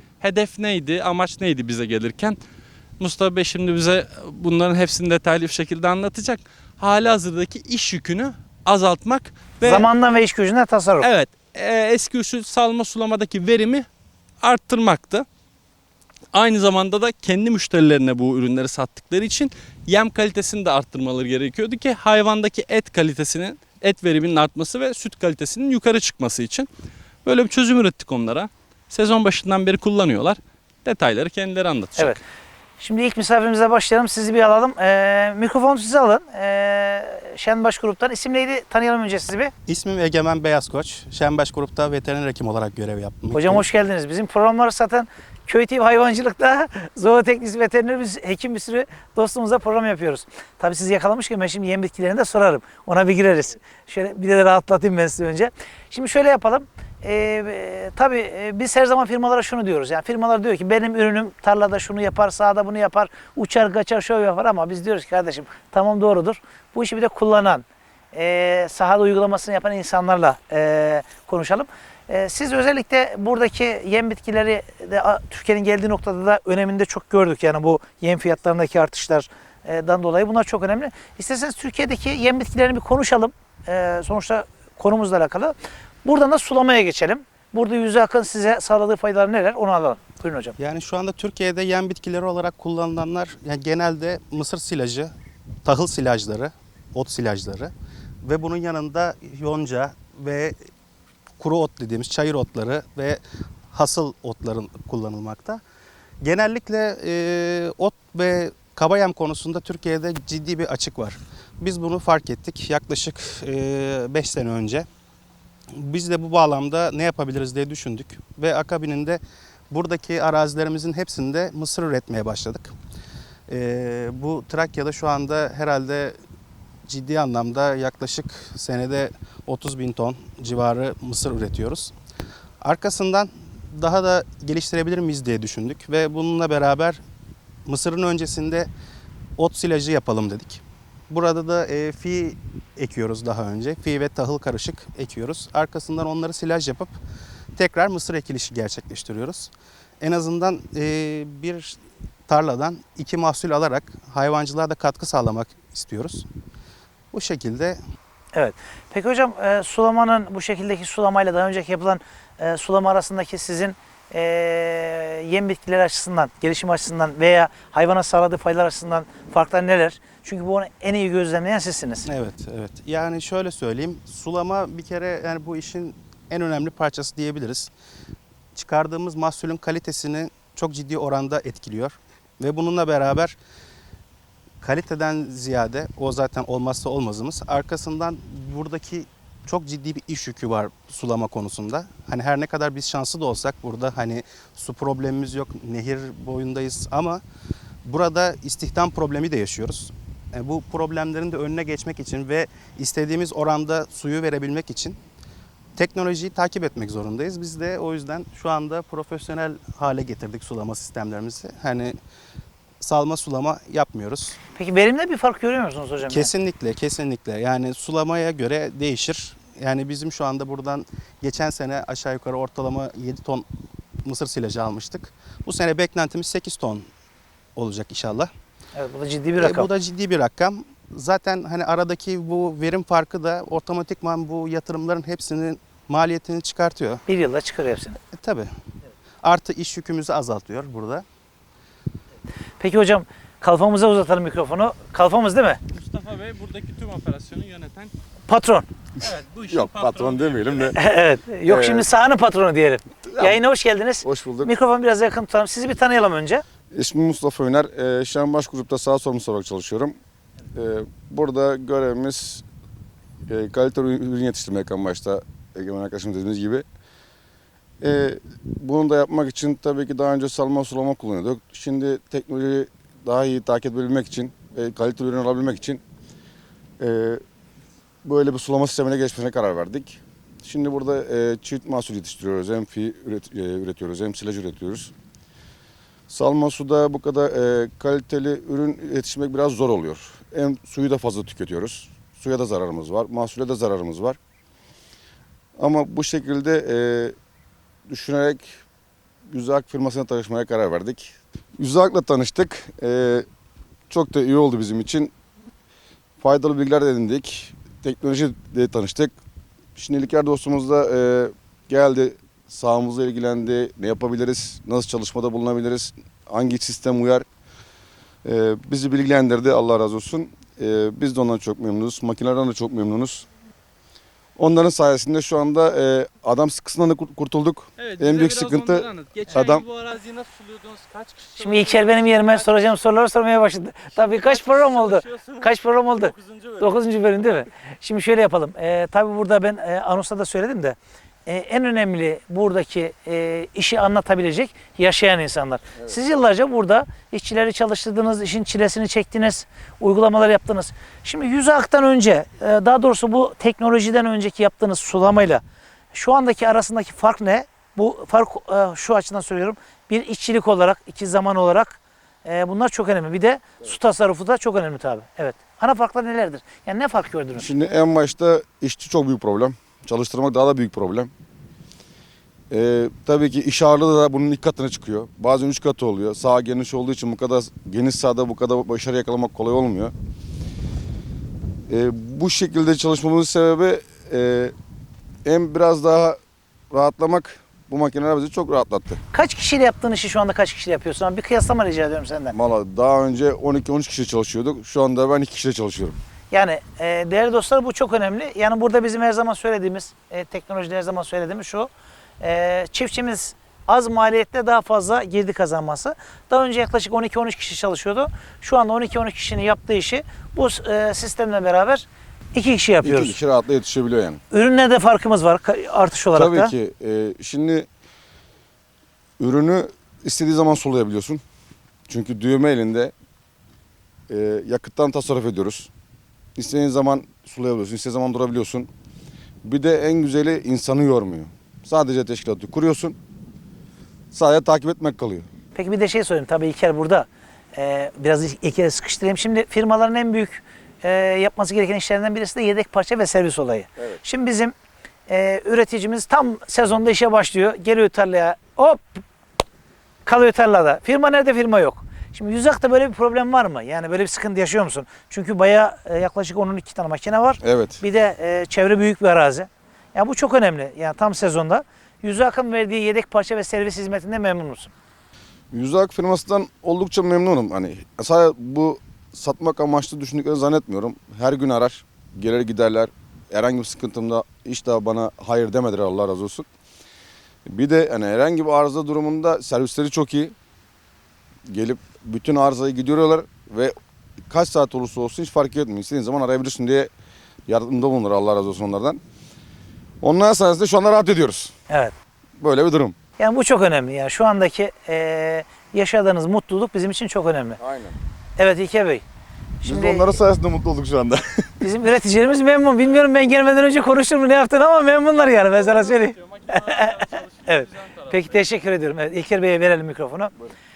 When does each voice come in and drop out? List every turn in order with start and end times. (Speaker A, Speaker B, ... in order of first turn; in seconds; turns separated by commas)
Speaker A: 0.2-2.4, Speaker A: 3.0-9.9, Speaker B: 9.6-11.1, Speaker A: 11.0-13.9, Speaker A: 14.4-15.2, Speaker A: 16.3-26.7, Speaker A: 27.2-32.2, Speaker B: 32.8-39.5, Speaker C: 39.7-43.6, Speaker B: 43.3-90.6, Speaker C: 90.6-95.1, Speaker C: 95.7-97.7, Speaker C: 98.2-100.5, Speaker C: 101.4-103.2, Speaker C: 103.7-105.6, Speaker C: 106.2-114.9, Speaker C: 115.7-122.8, Speaker C: 123.5-126.2, Speaker C: 126.9-131.9, Speaker C: 132.6-137.0, Speaker C: 137.7-138.7, Speaker C: 139.4-146.9, Speaker C: 147.6-149.5, Speaker C: 150.0-156.3, Speaker C: 157.1-157.8, Speaker B: 158.3-172.1, Speaker C: 172.1-177.7, Speaker C: 178.5-183.4, Speaker C: 184.6-197.2, Speaker C: 197.8-205.0, Speaker C: 205.8-212.0, Speaker C: 212.8-214.3, Speaker B: 214.5-216.3, Speaker C: 216.1-223.5, Speaker C: 224.0-226.9, Speaker C: 227.6-228.3, Speaker B: 228.8-229.7, Speaker C: 229.4-237.0, Speaker B: 237.1-238.0, Speaker C: 238.1-238.5, Speaker C: 239.2-241.0, Speaker B: 242.6-245.6, Speaker A: 245.7-247.9, Speaker B: 248.3-248.7, Speaker A: 249.0-250.7, Speaker D: 249.5-250.8, Speaker B: 250.8-256.4, Speaker D: 251.5-251.8, Speaker D: 253.1-253.4, Speaker D: 254.0-254.5, Speaker D: 256.7-260.0, Speaker D: 260.5-262.4, Speaker D: 263.3-266.6, Speaker D: 267.8-275.8, Speaker D: 276.8-277.2, Speaker D: 278.0-284.9, Speaker D: 286.1-294.2, Speaker D: 295.6-297.2, Speaker D: 297.9-298.5, Speaker D: 299.3-303.2, Speaker D: 303.9-305.1, Speaker D: 306.2-309.1, Speaker D: 309.8-317.2, Speaker D: 318.2-323.2, Speaker D: 324.4-329.6, Speaker A: 327.8-332.5, Speaker B: 331.4-355.4, Speaker A: 334.0-336.8, Speaker B: 355.9-367.5, Speaker D: 367.4-371.1, Speaker D: 372.5-379.9, Speaker D: 381.7-384.5, Speaker D: 385.2-386.2, Speaker D: 386.7-389.0, Speaker B: 389.1-392.4, Speaker D: 392.3-396.0, Speaker B: 396.3-413.2, Speaker D: 412.8-414.2, Speaker B: 414.3-416.5, Speaker D: 416.1-417.7, Speaker D: 419.2-421.2, Speaker D: 421.9-422.9, Speaker D: 424.1-425.7, Speaker D: 426.4-428.7, Speaker D: 429.4-433.0, Speaker D: 434.1-435.3, Speaker B: 435.6-444.5, Speaker B: 445.1-449.0, Speaker B: 450.1-464.7, Speaker D: 457.4-457.8, Speaker D: 465.5-476.5, Speaker D: 477.5-480.4, Speaker D: 481.5-483.8, Speaker D: 484.3-486.9, Speaker D: 487.5-489.0, Speaker D: 490.0-491.5, Speaker B: 491.7-491.9, Speaker D: 492.4-493.0, Speaker B: 493.2-497.6, Speaker D: 497.6-498.0, Speaker B: 498.4-499.0, Speaker B: 499.6-500.1, Speaker D: 499.6-501.5, Speaker B: 501.6-510.3, Speaker A: 506.2-508.1